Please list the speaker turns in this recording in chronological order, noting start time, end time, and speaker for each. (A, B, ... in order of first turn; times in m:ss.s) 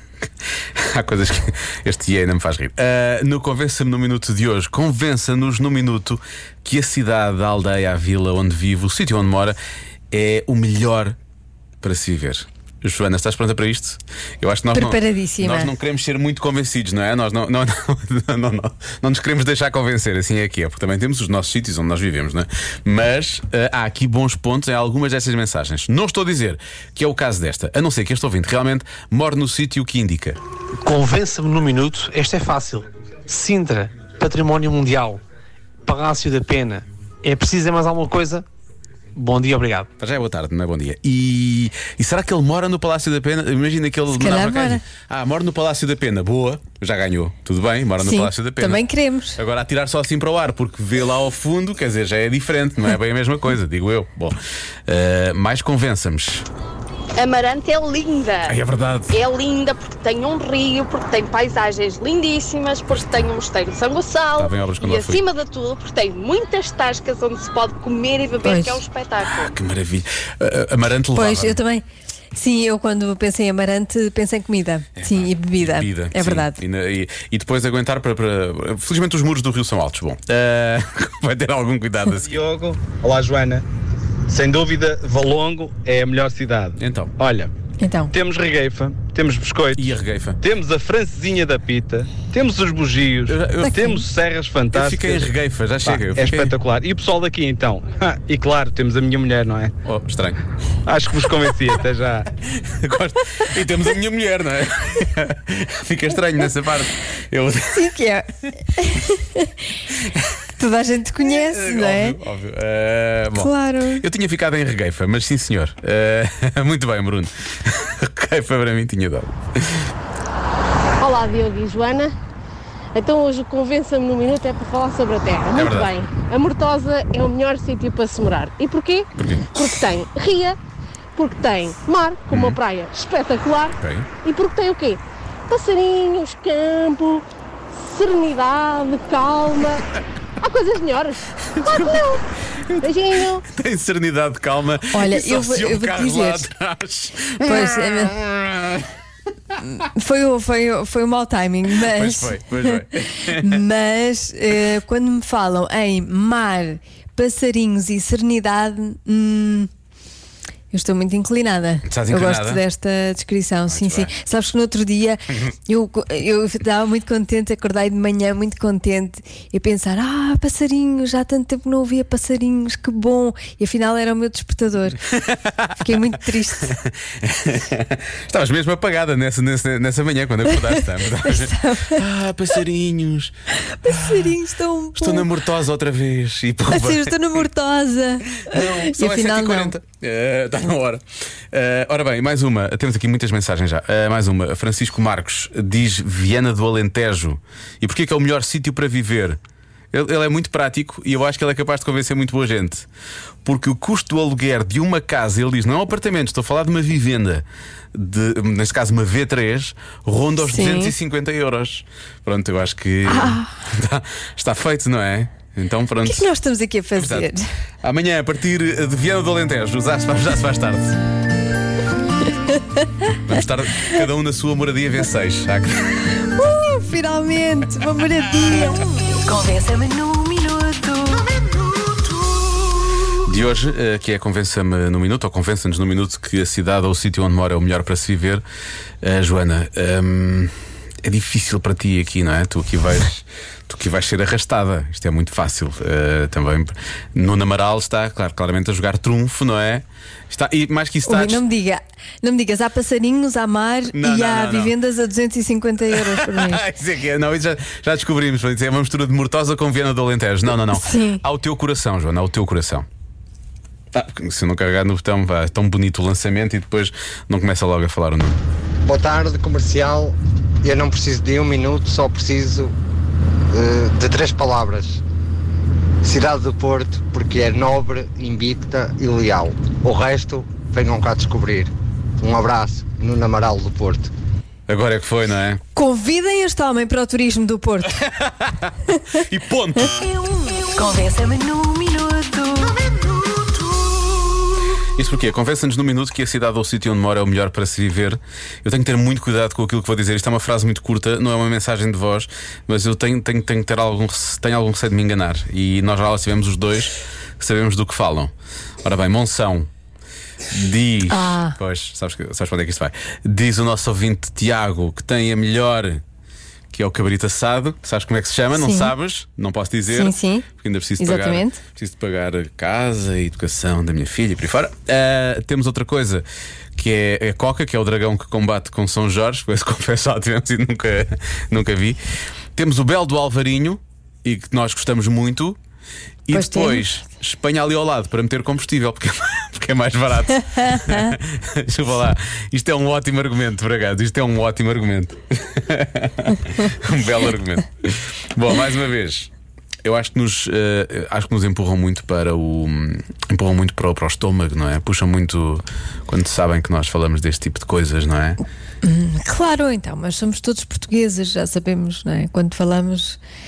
0:00.7-0:09.6 A
0:10.1-0:11.2 A
0:11.8-0:30.4 A
0:14.7-0:15.7 B
0:30.8-0:35.2 C
0:35.8-0:38.4 C
0:39.2-0:39.9 C
0:40.0-0:48.8 A
0:44.1-0:44.8 B
0:48.0-0:49.4 B
0:49.4-0:56.4 A
0:57.2-0:58.6 D
0:58.4-0:59.2 A
0:59.1-1:09.5 D
1:04.4-1:05.2 A
1:08.4-1:08.8 B
1:09.2-1:11.6 A
1:11.1-1:16.6 B
1:15.0-1:22.4 A
1:22.2-1:23.6 E
1:24.3-1:27.5 E
1:26.8-1:27.1 A
1:27.8-1:28.1 B
1:28.1-1:29.9 E
1:29.7-1:30.4 A
1:30.4-1:35.3 E
1:33.3-1:34.0 A
1:33.6-1:34.0 B
1:34.7-1:36.5 A
1:35.8-1:39.7 E
1:39.8-1:40.4 A
1:40.8-1:42.3 E
1:42.4-1:47.9 A
1:47.7-1:49.5 B
1:50.0-1:50.4 A
1:50.6-1:52.2 B
1:51.2-1:59.9 A
1:53.4-1:54.0 B
2:01.0-2:02.1 F
2:02.9-2:10.6 F
2:05.5-2:06.0 A
2:09.2-2:09.5 A
2:11.1-2:17.2 F
2:12.3-2:12.6 A
2:13.8-2:14.1 A
2:17.7-2:19.8 F
2:20.4-2:22.2 F
2:21.6-2:22.0 A
2:22.6-2:28.9 A
2:22.8-2:23.4 F
2:24.9-2:26.5 B
2:27.4-2:28.1 B
2:29.6-2:39.7 B
2:31.8-2:33.6 A
2:40.7-2:55.0 B
2:41.8-2:42.6 A
2:43.7-2:44.1 A
2:55.0-2:56.0 A
2:55.8-2:56.8 B
2:56.6-3:03.3 A
3:01.2-3:02.0 B
3:03.7-3:05.3 B
3:03.9-3:04.3 A
3:05.0-3:07.2 A
3:06.7-3:09.7 B
3:08.4-3:19.4 A
3:19.9-3:22.9 A
3:23.4-3:36.3 A
3:30.4-3:30.9 B
3:33.0-3:33.5 B
3:36.0-3:37.4 B
3:37.0-3:37.3 A
3:37.8-3:41.0 A
3:43.2-3:46.1 A
3:46.3-3:51.1 B
3:49.3-3:50.9 G
3:53.2-3:58.4 A
3:59.0-4:11.4 A
4:11.0-4:16.6 B
4:13.9-4:14.7 A
4:15.9-4:22.9 A
4:20.7-4:21.2 B
4:23.9-4:28.4 A
4:28.8-4:32.7 H
4:33.5-4:35.0 H
4:36.0-4:44.1 H
4:44.7-4:45.6 A
4:45.7-4:48.0 B
4:48.0-4:50.1 A
4:50.8-4:52.9 G
4:55.0-5:09.7 A
5:10.5-5:16.0 A
5:11.1-5:11.6 B
5:16.7-5:26.2 A
5:18.6-5:18.9 B
5:19.9-5:20.5 B
5:21.0-5:21.6 B
5:26.8-5:32.0 A
5:32.5-5:35.6 A
5:36.2-5:49.3 A
5:36.3-5:36.8 B
5:40.7-5:41.1 B
5:49.8-5:58.4 A
5:58.8-6:03.2 B